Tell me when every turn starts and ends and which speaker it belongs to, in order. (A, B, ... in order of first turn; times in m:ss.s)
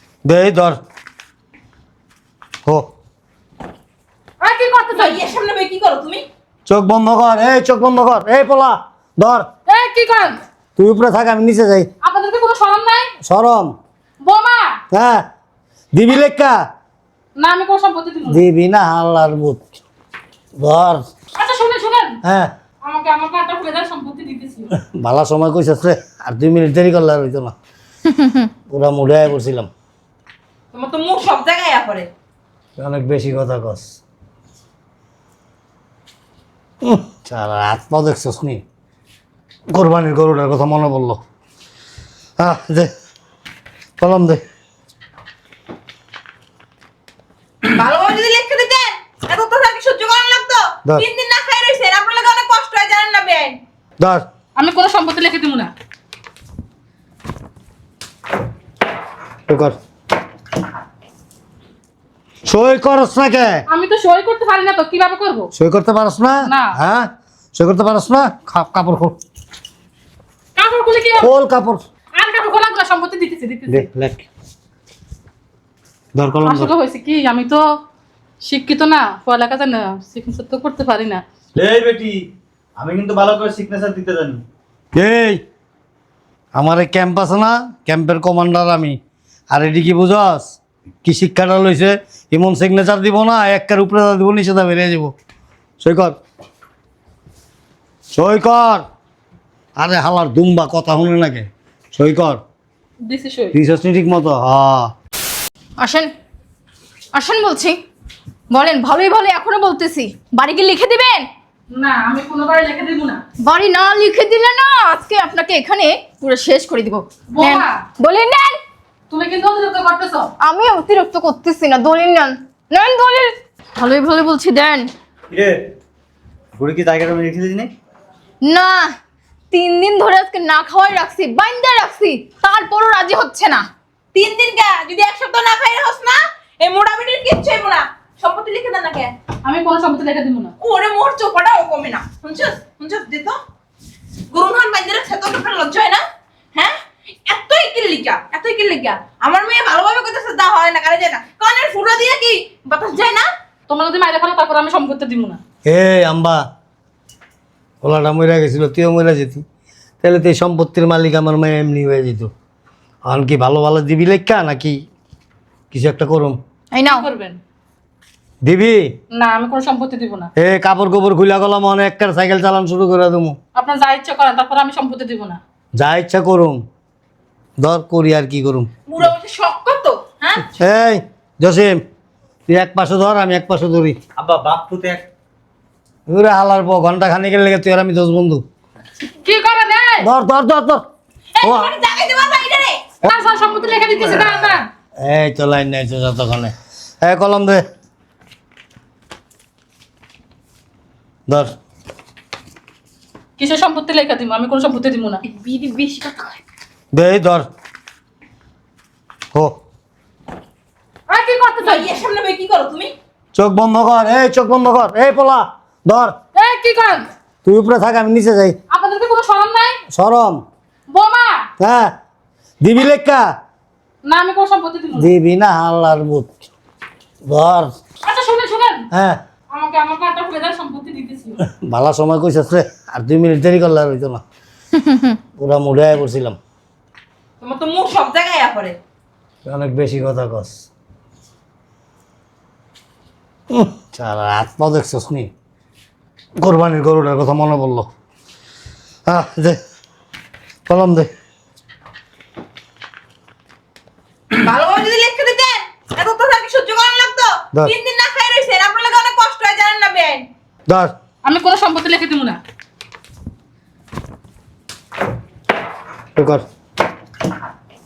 0:00.2-0:00.8 A
0:04.4-0:05.2 B
0:04.9-0:06.2 C
0:06.7-0:09.4 A
0:09.7-0:10.4 B
0:10.8-0:11.9 A
0:12.0-0:13.1 B
0:13.2-0:13.8 A
0:14.2-0:14.8 B
0:14.9-0:15.2 A
0:15.9-0:16.6 A
0:17.4-0:18.4 B
0:18.3-0:19.7 A
0:20.6-0:21.0 A
0:21.3-0:22.2 B
0:22.2-0:22.5 A
0:22.8-0:24.8 B
0:24.8-0:27.5 A
0:28.7-0:29.7 A
0:30.7-0:32.1 C
0:32.8-0:34.0 A
0:36.8-0:38.6 A
0:39.7-0:41.2 A
0:42.4-0:42.9 A
0:44.0-0:44.4 A
0:47.7-0:53.6 C
0:54.0-0:54.2 A
0:54.6-0:55.7 B
0:59.5-0:59.8 A
1:02.4-1:03.6 A
1:03.7-1:05.5 B
1:05.5-1:09.2 A
1:06.4-1:06.8 B
1:10.6-1:11.3 B
1:11.2-1:11.8 A
1:12.1-1:13.9 B
1:13.7-1:14.2 A
1:16.1-1:16.7 A
1:16.4-1:17.6 B
1:18.4-1:21.2 B
1:21.6-1:24.4 D
1:24.9-1:25.4 A
1:26.5-1:29.0 A
1:29.5-1:35.1 A
1:35.8-1:36.2 A
1:38.1-1:38.8 A
1:39.8-1:42.4 A
1:43.0-1:43.5 B
1:43.5-1:44.9 A
1:45.8-1:46.1 E
1:47.1-1:47.8 E
1:48.5-1:51.3 E
1:51.7-1:53.2 B
1:53.4-1:58.6 E
1:57.3-1:57.8 B
1:59.1-2:00.3 B
2:00.4-2:04.9 E
2:05.3-2:05.6 D
2:06.6-2:07.7 D
2:08.4-2:09.0 E
2:09.5-2:13.7 E
2:14.1-2:19.1 C
2:19.4-2:20.5 B
2:20.6-2:23.4 C
2:24.3-2:26.0 C
2:27.2-2:33.2 C
2:33.7-2:35.4 B
2:35.6-2:36.4 A
2:37.8-2:39.4 A
2:40.0-2:42.3 A
2:43.0-2:44.8 A
2:45.7-2:46.4 A
2:46.7-2:47.1 E
2:46.8-2:47.4 B
2:48.4-2:48.8 A
2:49.1-2:50.3 B
2:50.4-2:53.4 A
2:53.5-2:55.4 B
2:55.8-2:56.6 A
2:57.6-2:59.1 A
2:58.9-3:00.5 C
3:00.6-3:01.8 A
3:02.5-3:04.0 A
3:04.2-3:05.1 D
3:06.1-3:08.4 A
3:09.2-3:10.1 B
3:10.0-3:10.8 A
3:11.4-3:12.8 C
3:11.4-3:11.7 A
3:13.0-3:14.7 B
3:15.0-3:17.6 A
3:21.3-3:21.5 A
3:23.4-3:25.2 B
3:25.3-3:26.4 C
3:26.9-3:27.5 A
3:31.1-3:31.9 B
3:31.6-3:32.9 C
3:33.3-3:36.2 A
3:36.3-3:37.1 B
3:37.4-3:38.6 A
3:38.7-3:39.8 B
3:39.9-3:40.4 A
3:40.9-3:41.5 B
3:41.6-3:41.9 A
3:42.6-3:43.3 A
3:44.0-3:45.1 B
3:45.0-3:46.4 A
3:47.2-3:47.7 A
3:48.0-3:48.8 B
3:48.9-3:49.2 A
3:49.5-3:51.4 B
3:51.4-3:54.2 A
3:55.4-3:56.4 A
3:57.4-3:58.8 C
3:59.4-4:00.6 A
4:03.5-4:05.3 A
4:06.4-4:07.9 A
4:09.0-4:09.6 A
4:10.7-4:11.1 A
4:14.4-4:20.3 C
4:20.7-4:20.9 A
4:21.2-4:22.4 B
4:26.2-4:26.4 A